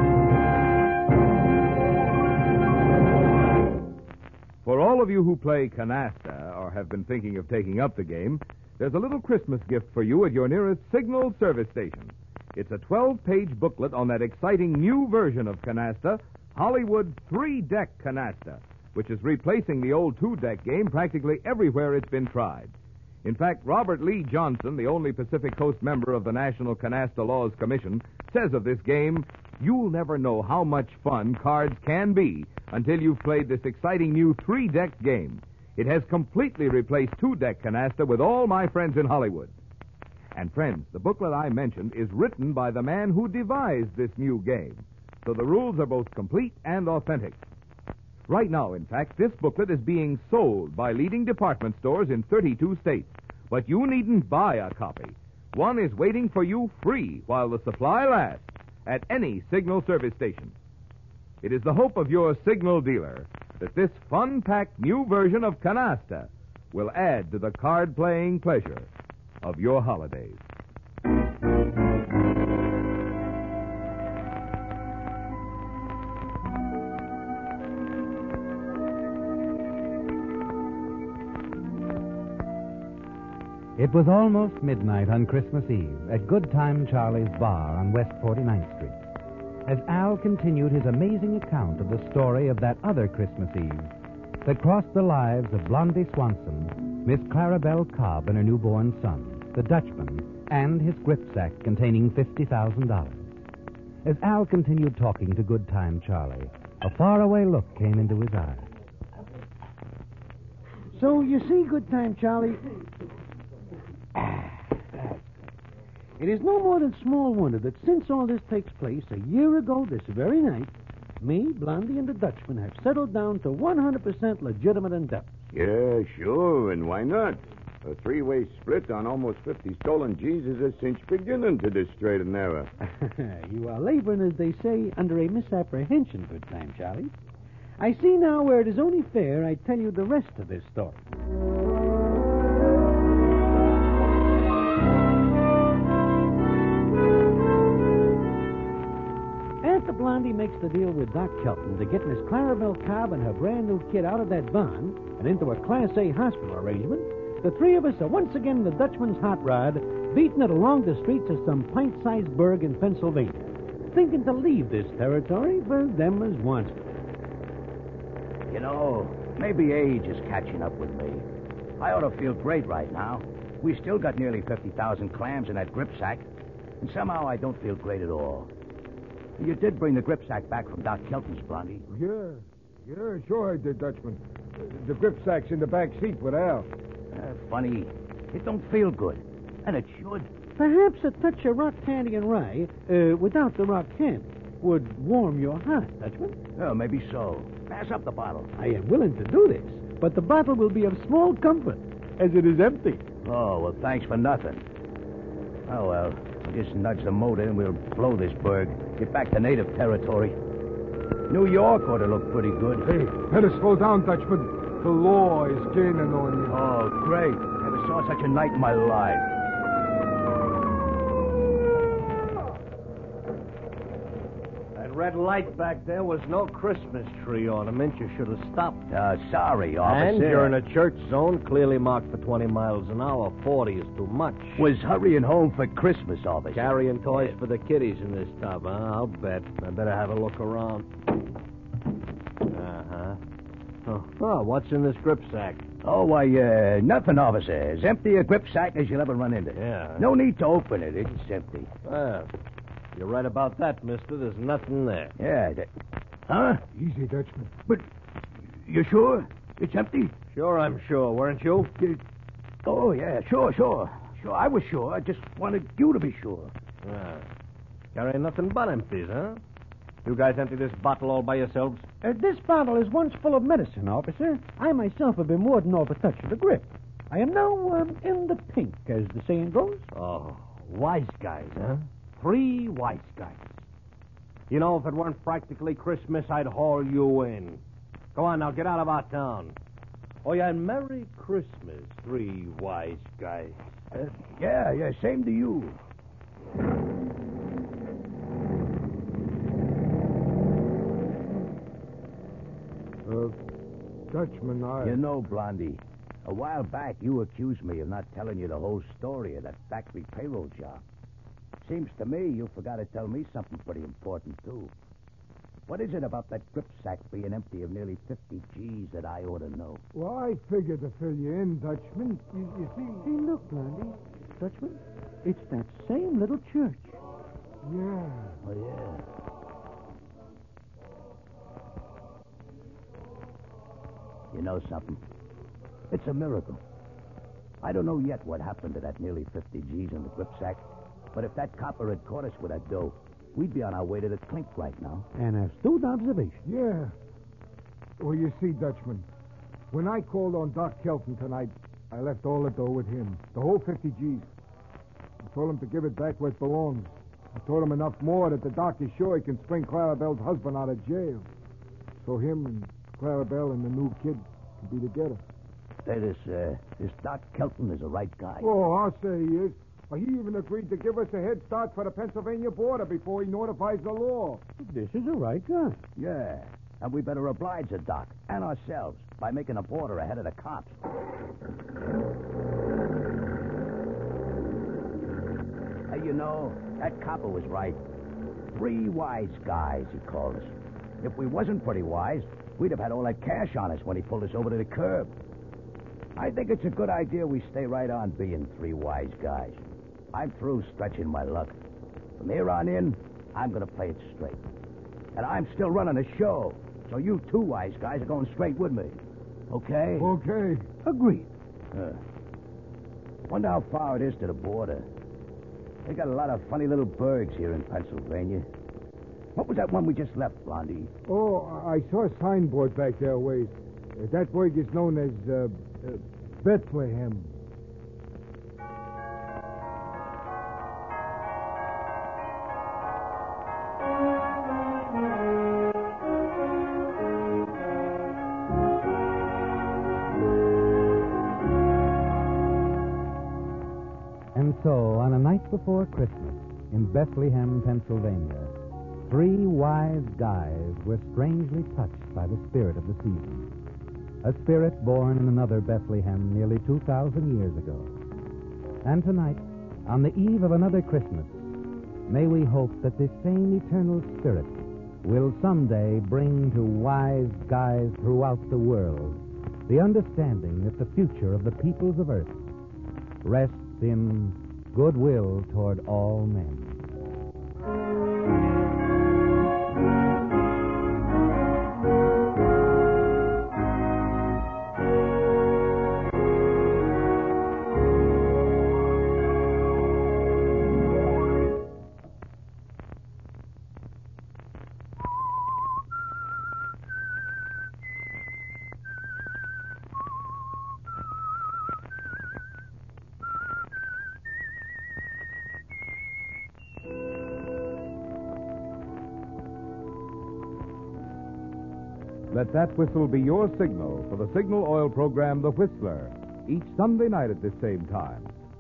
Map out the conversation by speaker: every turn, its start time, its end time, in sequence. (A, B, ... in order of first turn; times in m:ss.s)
0:04.6-0:39.5 A
0:40.4-0:47.4 A
0:48.3-1:00.6 A
1:01.4-1:08.9 A
1:09.4-1:10.4 A
1:23.8-1:29.0 B
1:29.6-1:43.3 B
1:44.0-1:48.7 B
1:50.9-1:52.6 C
1:56.2-2:05.3 C
2:05.5-2:12.7 D
2:12.9-2:17.1 C
2:17.8-2:21.0 C
2:29.6-2:46.9 C
2:48.5-2:51.3 E
2:51.8-2:56.3 E
2:56.8-2:58.5 E
2:59.4-3:01.9 E
3:01.9-3:06.7 F
3:07.1-3:10.3 E
3:10.6-3:16.4 C
3:16.6-3:18.5 E
3:18.6-3:23.0 C
3:22.2-3:22.9 G
3:23.2-3:24.6 E
3:25.7-3:30.4 E
3:31.3-3:32.9 E
3:32.8-3:36.6 F
3:36.5-3:39.3 E
3:44.8-3:48.8 G
3:48.9-3:50.6 E
3:49.8-3:54.7 G
3:54.6-3:57.4 E
3:56.5-4:00.9 G
4:02.5-4:03.2 G
4:03.9-4:05.6 G
4:05.8-4:11.7 E
4:09.6-4:10.1 G
4:11.8-4:12.3 G
4:12.9-4:15.1 G
4:15.2-4:15.7 E
4:16.3-4:16.6 E
4:16.7-4:17.5 F
4:18.6-4:20.2 E
4:20.3-4:21.7 G
4:22.6-4:26.5 E
4:26.8-4:27.3 G
4:27.9-4:29.4 G
4:30.0-4:31.9 G
4:32.0-4:39.9 C
4:39.9-4:43.5 G
4:44.5-4:47.6 G
4:48.1-4:49.6 G
4:50.2-4:53.6 G
4:53.9-4:55.8 E
5:03.1-5:03.4 F
5:04.1-5:05.0 F
5:04.8-5:10.8 E
5:11.6-5:14.7 E
5:15.7-5:19.8 E
5:19.9-5:23.1 F
5:23.0-5:27.0 C
5:27.6-5:28.4 F
5:28.4-5:29.0 E
5:34.3-5:35.0 E
5:35.9-5:36.6 E
5:37.6-5:40.6 E
5:41.1-5:45.1 E
5:45.2-5:46.4 C
5:46.4-5:46.9 F
5:48.0-5:49.1 F
5:49.7-5:54.3 F
5:55.3-6:01.3 F
6:02.0-6:05.2 F
6:05.8-6:08.5 E
6:08.4-6:14.4 F
6:14.6-6:15.8 C
6:16.0-6:20.8 E
6:25.9-6:27.8 E
6:28.5-6:35.1 E
6:36.2-6:41.6 E
6:42.2-6:44.4 E
6:45.2-6:49.0 E
6:49.5-6:50.1 E
6:50.0-6:50.7 F
6:50.8-6:51.3 C
6:51.7-6:52.0 E
6:53.3-6:54.9 E
6:55.9-6:58.5 E
6:59.4-7:00.9 E
7:01.1-7:07.4 F
7:24.3-7:28.5 B
7:29.0-7:33.5 B
7:34.2-7:38.0 B
7:38.8-7:41.5 B
7:42.1-7:52.4 B
7:53.2-7:56.8 B
8:32.3-8:38.4 A